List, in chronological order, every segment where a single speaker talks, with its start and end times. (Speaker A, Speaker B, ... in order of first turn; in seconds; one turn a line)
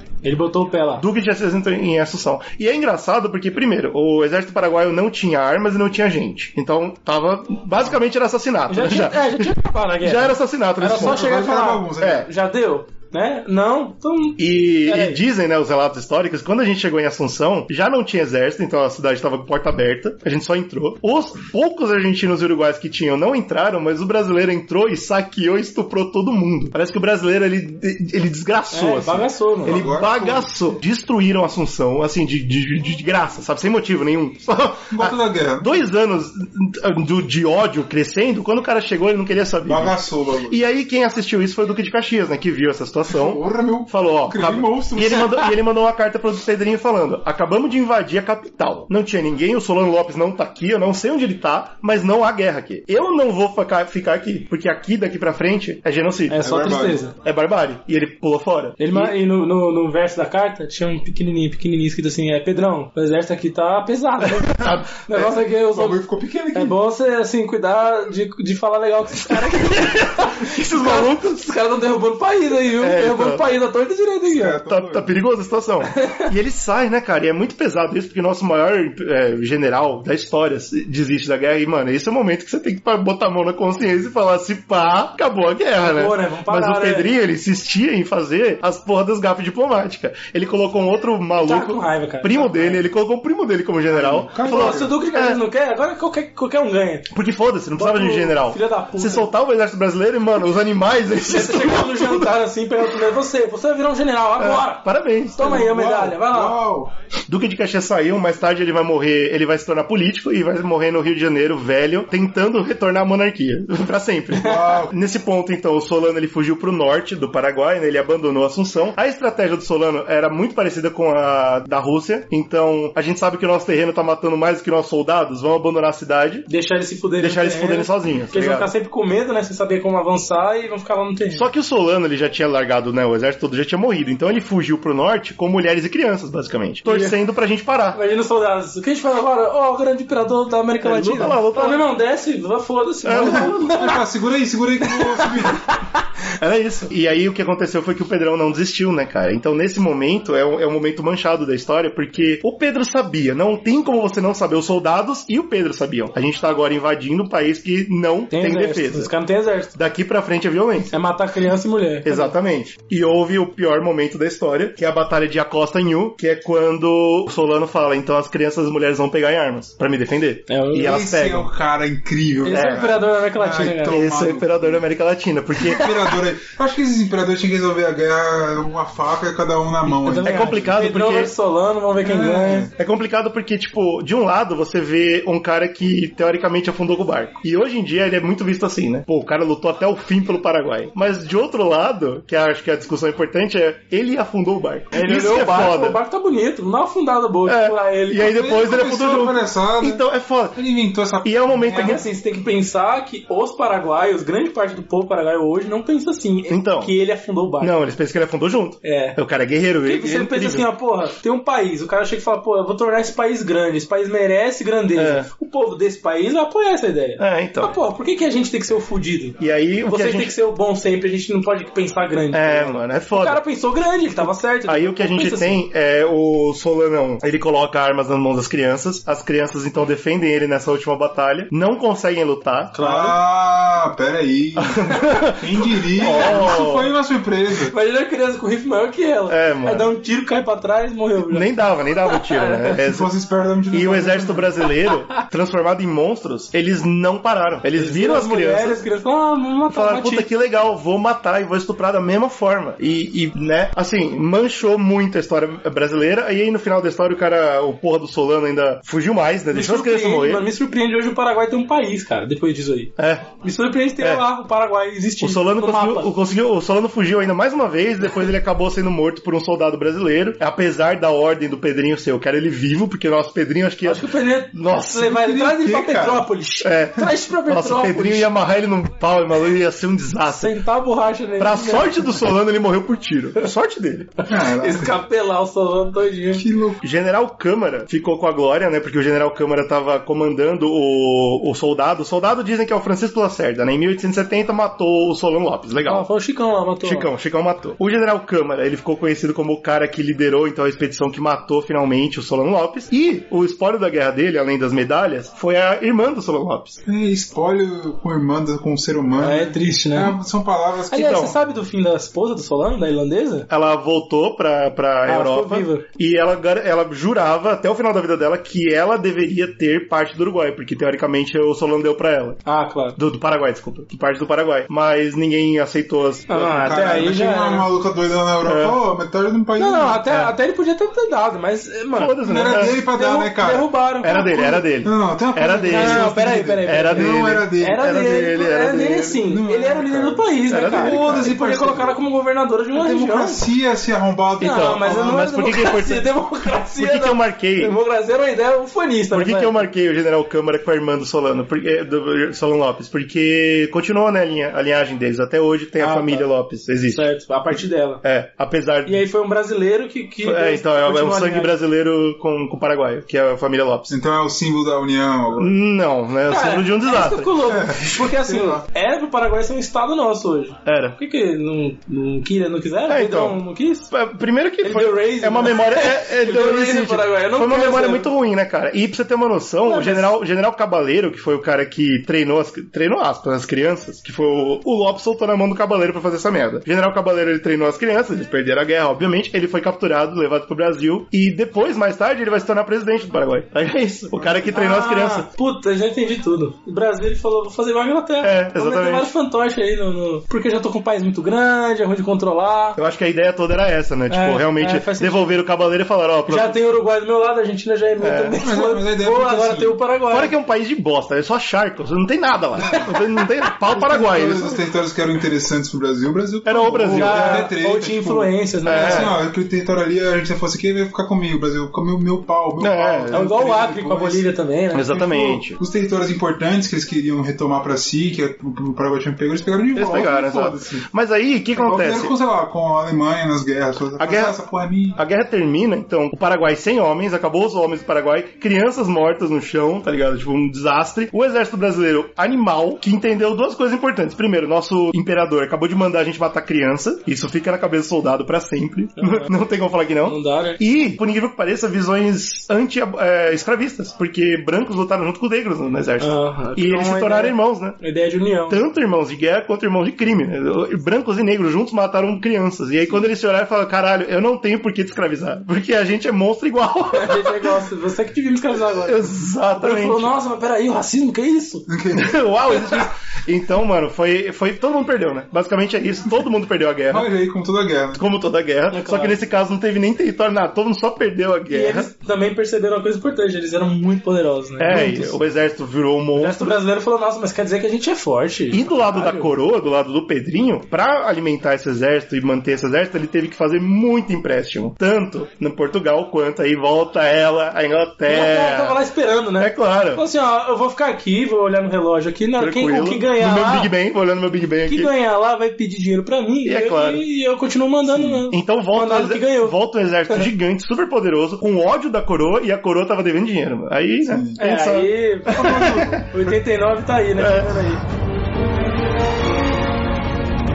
Speaker A: 0.2-1.1
Speaker B: 1.0-11.3
Speaker A: 8.7-15.2
Speaker C: 10.9-12.3
Speaker B: 12.0-12.3
Speaker B: 14.4-40.0
Speaker A: 28.7-29.8
Speaker C: 29.6-30.5
Speaker C: 34.9-35.8
Speaker C: 39.6-40.6
Speaker B: 40.5-56.5
Speaker C: 43.1-45.5
Speaker A: 56.3-57.1
Speaker C: 56.4-57.0
Speaker B: 57.2-59.1
Speaker A: 58.8-66.0
Speaker B: 64.2-65.4
Speaker C: 65.7-66.8
Speaker A: 66.5-74.6
Speaker B: 69.3-71.4
Speaker B: 72.8-73.4
Speaker C: 74.3-75.1
Speaker B: 74.7-95.4
Speaker A: 75.9-76.3
Speaker A: 85.8-87.1
Speaker A: 91.4-92.8
Speaker C: 93.9-95.0
Speaker A: 94.4-97.1
Speaker B: 97.1-102.3
Speaker A: 97.8-99.3
Speaker A: 101.2-104.8
Speaker B: 104.4-105.6
Speaker A: 105.3-106.6
Speaker C: 105.4-106.9
Speaker B: 107.3-126.5
Speaker C: 114.4-114.9
Speaker A: 126.5-131.5
Speaker B: 127.2-128.7
Speaker B: 131.3-138.0
Speaker A: 136.8-137.2
Speaker A: 137.9-144.0
Speaker B: 140.8-141.8
Speaker B: 143.0-143.9
Speaker C: 143.2-145.6
Speaker A: 144.9-145.8
Speaker B: 146.4-159.1
Speaker A: 158.3-159.7
Speaker B: 159.7-160.9
Speaker A: 160.9-162.3
Speaker B: 162.0-171.5
Speaker A: 170.5-170.9
Speaker C: 170.7-174.8
Speaker A: 172.4-174.0
Speaker B: 172.5-172.9
Speaker B: 173.8-176.0
Speaker C: 175.7-180.7
Speaker A: 179.8-182.7
Speaker B: 180.2-181.3
Speaker C: 182.0-182.7
Speaker B: 182.8-196.0
Speaker A: 194.9-198.3
Speaker B: 197.4-200.6
Speaker C: 198.1-202.0
Speaker B: 201.2-202.0
Speaker A: 201.7-207.7
Speaker B: 206.5-206.9
Speaker B: 207.6-210.7
Speaker A: 208.8-209.2
Speaker A: 209.8-225.6
Speaker B: 214.9-215.3
Speaker B: 217.2-217.7
Speaker B: 219.4-220.3
Speaker B: 222.3-223.4
Speaker B: 224.2-232.7
Speaker A: 232.7-233.2
Speaker C: 232.8-237.7
Speaker B: 234.6-236.9
Speaker A: 236.0-236.6
Speaker A: 237.7-242.7
Speaker B: 239.3-239.9
Speaker B: 241.2-243.1
Speaker C: 242.7-244.5
Speaker B: 243.7-248.8
Speaker A: 247.8-250.3
Speaker B: 249.7-260.4
Speaker A: 259.5-266.1
Speaker B: 263.0-263.3
Speaker B: 265.2-275.2
Speaker A: 273.8-278.3
Speaker C: 275.1-276.3
Speaker B: 276.6-280.5
Speaker A: 280.3-282.1
Speaker B: 281.4-284.1
Speaker A: 284.2-286.4
Speaker C: 284.3-284.9
Speaker C: 286.3-286.8
Speaker B: 286.8-296.1
Speaker A: 295.9-297.1
Speaker B: 296.8-306.8
Speaker C: 306.9-311.4
Speaker A: 309.2-310.2
Speaker A: 310.9-313.5
Speaker B: 313.5-322.4
Speaker A: 315.1-315.8
Speaker A: 322.4-323.0
Speaker B: 322.9-326.6
Speaker A: 326.3-327.7
Speaker C: 326.4-330.1
Speaker B: 328.4-328.8
Speaker A: 329.6-332.2
Speaker B: 331.9-332.8
Speaker C: 332.2-333.7
Speaker A: 332.9-334.6
Speaker B: 334.0-336.1
Speaker C: 334.7-337.8
Speaker A: 335.7-343.4
Speaker B: 336.6-339.2
Speaker C: 339.2-341.9
Speaker B: 340.5-341.4
Speaker C: 342.7-345.2
Speaker B: 344.4-346.1
Speaker A: 344.4-349.6
Speaker B: 346.7-347.7
Speaker B: 349.1-357.1
Speaker A: 355.8-356.3
Speaker A: 356.9-358.0
Speaker B: 358.0-359.0
Speaker A: 358.9-361.5
Speaker B: 360.2-363.9
Speaker C: 363.9-365.5
Speaker B: 365.4-367.4
Speaker A: 366.3-373.9
Speaker C: 367.4-368.6
Speaker B: 370.6-371.0
Speaker B: 372.9-395.3
Speaker A: 374.6-378.1
Speaker A: 379.6-380.1
Speaker C: 394.1-394.5
Speaker A: 394.5-402.8
Speaker B: 398.2-399.1
Speaker B: 402.8-406.6
Speaker A: 404.1-405.4
Speaker A: 406.3-410.3
Speaker B: 408.0-408.4
Speaker C: 408.4-409.8
Speaker B: 410.1-414.6
Speaker C: 412.6-412.9
Speaker C: 413.7-430.9
Speaker B: 416.4-417.5
Speaker A: 416.9-419.1
Speaker B: 418.6-419.1
Speaker B: 422.6-423.2
Speaker A: 423.1-424.9
Speaker B: 424.7-425.6
Speaker B: 429.7-432.1
Speaker C: 431.6-435.0
Speaker B: 434.0-434.4
Speaker B: 434.9-457.8
Speaker A: 449.0-449.3
Speaker A: 450.0-450.6
Speaker A: 456.0-458.6
Speaker B: 458.5-467.6
Speaker A: 466.9-471.6
Speaker B: 468.7-470.1
Speaker C: 471.7-472.8
Speaker B: 471.9-477.1
Speaker C: 476.9-478.0
Speaker B: 477.9-481.9
Speaker A: 478.7-479.2
Speaker A: 481.5-485.1
Speaker B: 484.6-486.5
Speaker C: 484.7-485.0
Speaker A: 486.1-489.3
Speaker B: 488.5-498.8
Speaker A: 498.0-503.7
Speaker B: 499.4-500.0
Speaker B: 502.4-504.9
Speaker A: 504.6-509.6
Speaker B: 506.4-507.0
Speaker C: 507.8-508.2
Speaker B: 508.3-516.0
Speaker C: 514.0-514.4
Speaker A: 514.4-517.8
Speaker C: 515.3-516.1
Speaker B: 517.2-517.7